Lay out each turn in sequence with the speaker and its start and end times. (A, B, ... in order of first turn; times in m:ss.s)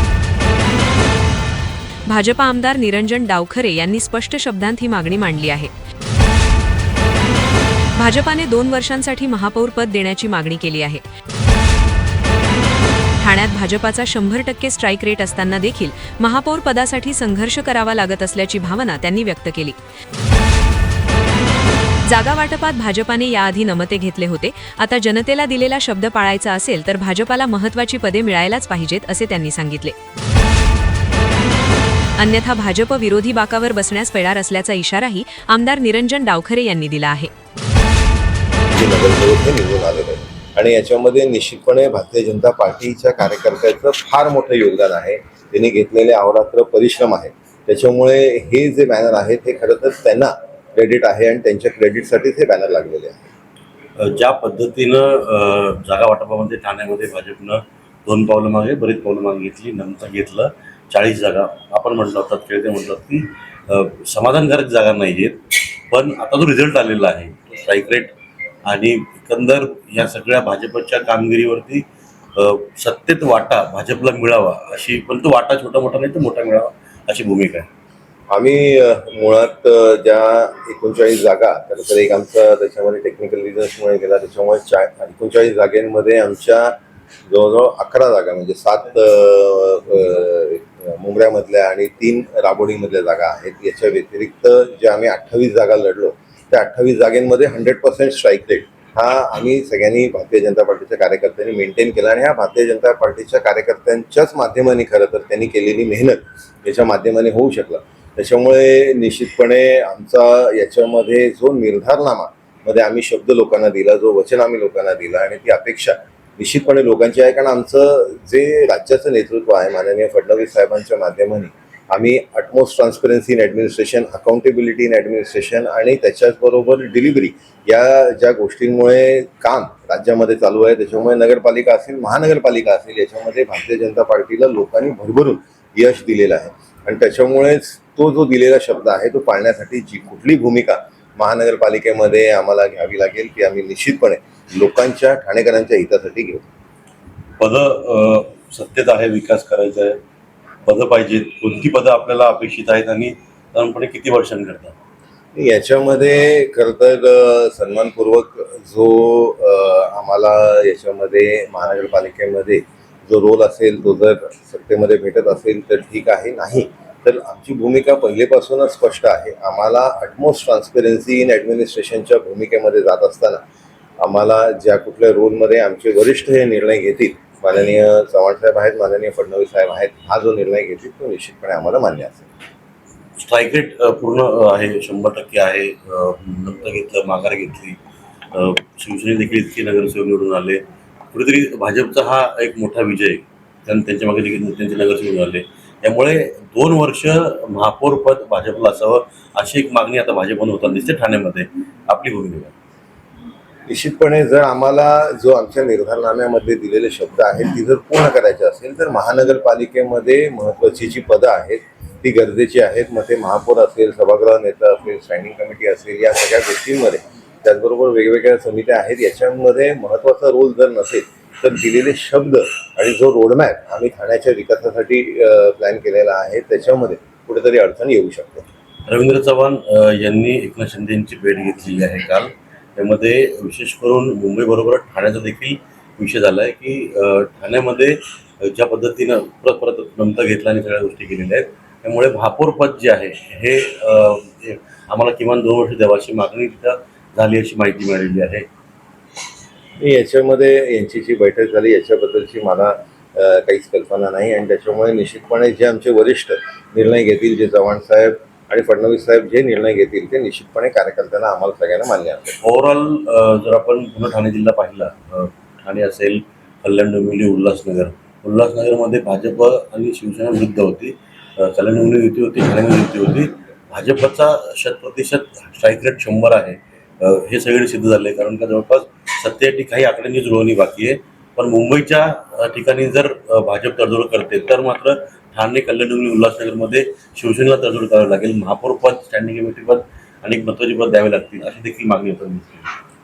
0:02.1-0:05.7 A
0:07.9-0:11.0 A
0:13.2-0:19.8 A
0:22.0-0:30.0 A
0:32.2-0:37.3 A
0:38.7-0:53.2 B
0:54.0-1:08.1 C
1:08.6-1:11.8 C
1:12.4-1:17.7 C
1:18.3-2:26.4 B
2:27.4-2:30.0 C
2:30.6-2:34.7 C
2:35.3-2:53.4 B
2:54.0-3:02.3 B
3:03.2-3:07.8 C
3:08.3-3:22.5 C
3:23.7-3:48.5 B
3:48.9-4:08.5 C
4:09.8-4:22.4 B
4:22.4-4:52.7 C